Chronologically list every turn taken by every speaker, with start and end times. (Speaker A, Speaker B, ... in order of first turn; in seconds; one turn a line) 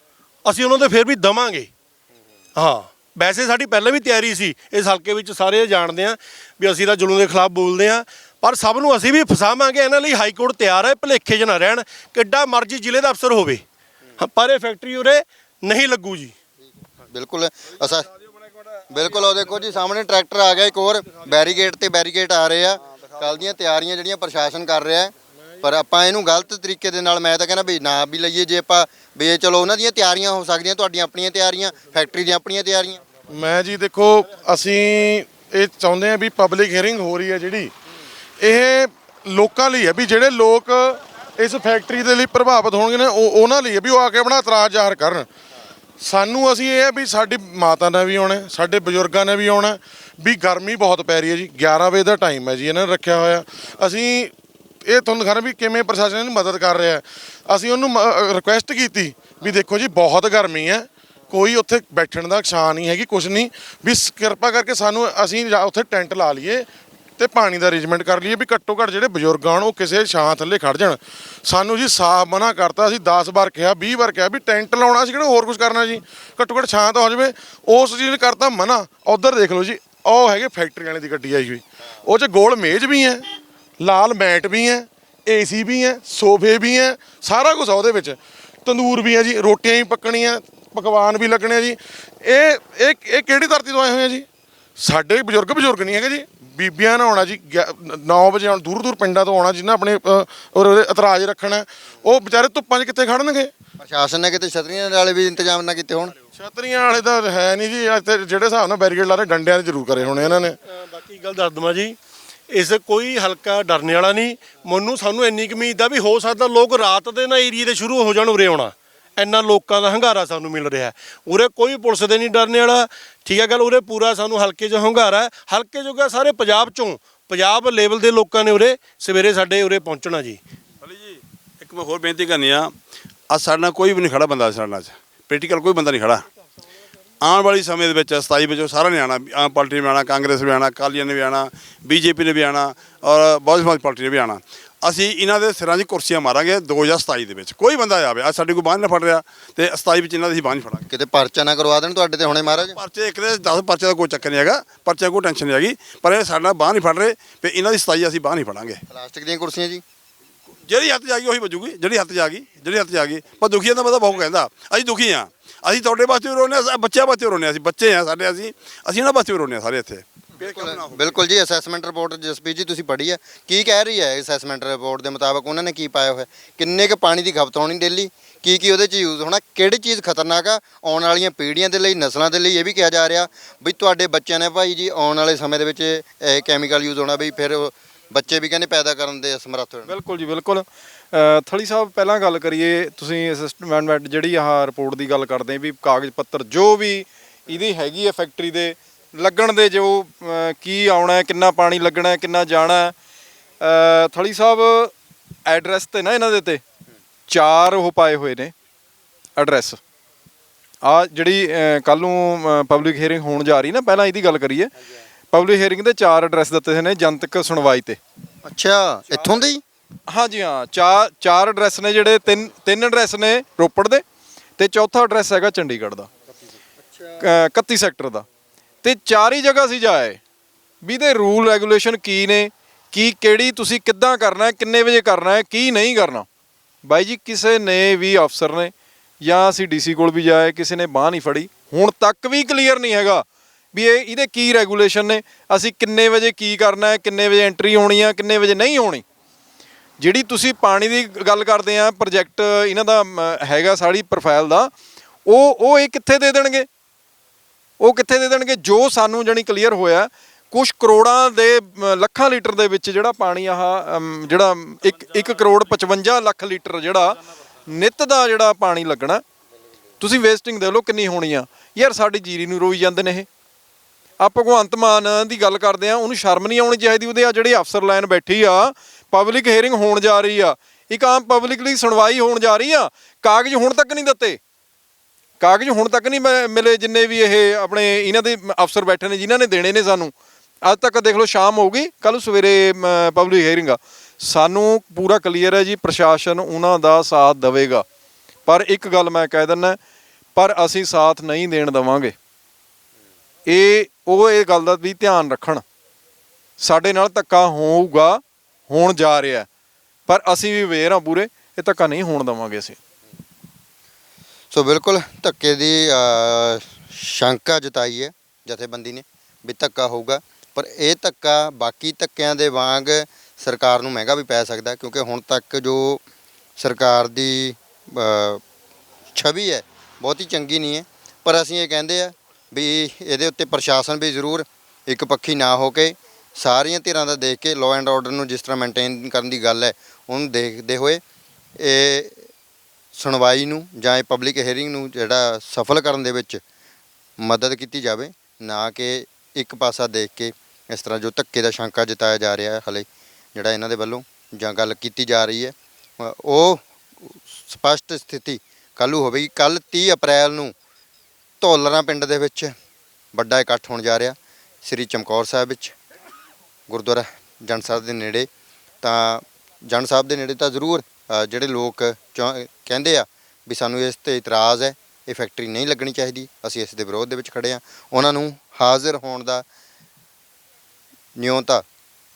Speaker A: 0.5-1.7
Speaker A: 2.6-13.6
Speaker A: 14.2-16.3
Speaker B: 17.1-18.1
Speaker B: 18.9-33.0
Speaker C: 33.3-37.7
Speaker C: 38.4-45.3
Speaker C: 46.0-54.3
Speaker C: 54.9-66.7
Speaker C: 67.2-83.2
Speaker C: 83.8-94.3
Speaker C: 94.8-103.5
Speaker B: 103.8-106.1
Speaker C: 106.4-110.6
Speaker A: 110.6-112.0
Speaker A: 112.5-130.4
Speaker D: 130.8-132.7
Speaker D: 133.3-136.2
Speaker D: 137.2-150.8
Speaker B: 150.9-152.8
Speaker D: 152.4-158.8
Speaker B: 158.9-159.8
Speaker D: 160.6-171.2
Speaker B: 170.4-189.9
Speaker E: 189.9-202.9
Speaker E: 203.6-204.9
Speaker E: 205.5-206.6
Speaker E: 207.3-208.5
Speaker E: 209.4-209.8
Speaker E: 210.8-214.7
Speaker E: 215.3-218.0
Speaker B: 218.4-219.6
Speaker E: 220.1-224.0
Speaker E: 224.6-226.1
Speaker E: 227.2-228.3
Speaker E: 228.8-230.2
Speaker E: 230.8-236.3
Speaker E: 236.8-249.0
Speaker E: 250.0-254.7
Speaker E: 255.3-256.7
Speaker E: 257.8-269.2
Speaker E: 270.0-273.3
Speaker E: 274.2-284.4
Speaker E: 285.4-290.1
Speaker E: 290.6-297.9
Speaker E: 298.5-299.8
Speaker E: 300.4-302.1
Speaker E: 303.5-305.6
Speaker E: 306.6-309.5
Speaker E: 310.1-312.8
Speaker B: 314.5-326.0
Speaker B: 326.6-328.4
Speaker B: 329.1-341.0
Speaker B: 341.6-342.2
Speaker B: 342.9-346.4
Speaker B: 347.2-360.6
Speaker B: 361.4-362.5
Speaker B: 363.1-365.8
Speaker B: 366.7-368.3
Speaker B: 368.8-379.4
Speaker B: 381.2-381.6